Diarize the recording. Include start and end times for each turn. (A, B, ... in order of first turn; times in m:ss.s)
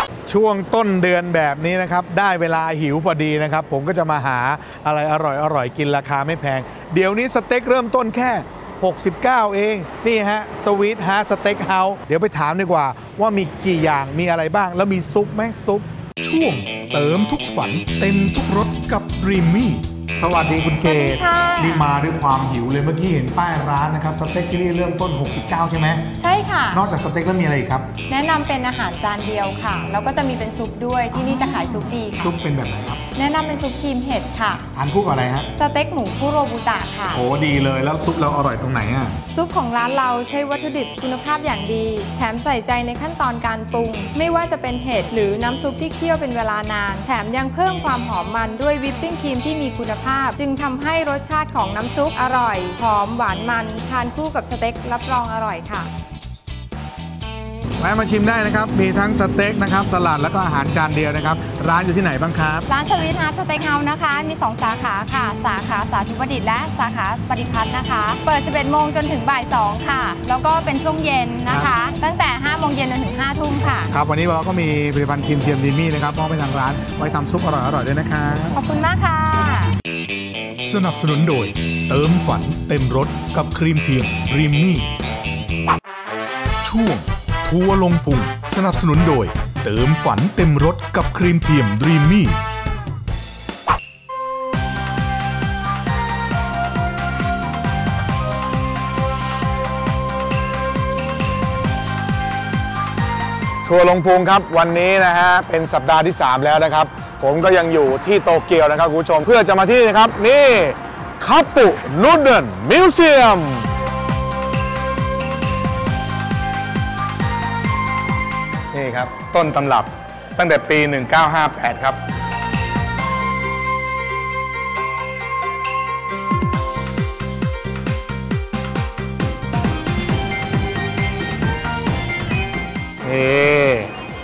0:00.2-0:15.9 A
0:16.2-0:19.8 B
0:20.2-0:26.0 A
0:20.8-0:21.9 C
0:26.2-0:26.8 C
0:26.7-0:27.9 A
0:28.1-0:32.3 C
0:31.1-0:33.0 A
0:33.1-0:34.6 C
0:34.7-0:35.5 A
0:35.5-0:37.2 C
0:37.1-0:39.1 A
0:39.3-0:55.9 C
0:57.8-1:02.7 A
1:02.7-1:13.9 C
1:11.5-1:11.8 A
1:13.9-1:18.6 A
1:18.5-1:19.8 C
1:20.6-1:24.9 B
1:26.6-1:32.4 B
1:43.6-1:53.7 A
1:58.7-2:02.0 A
2:13.0-2:13.9 A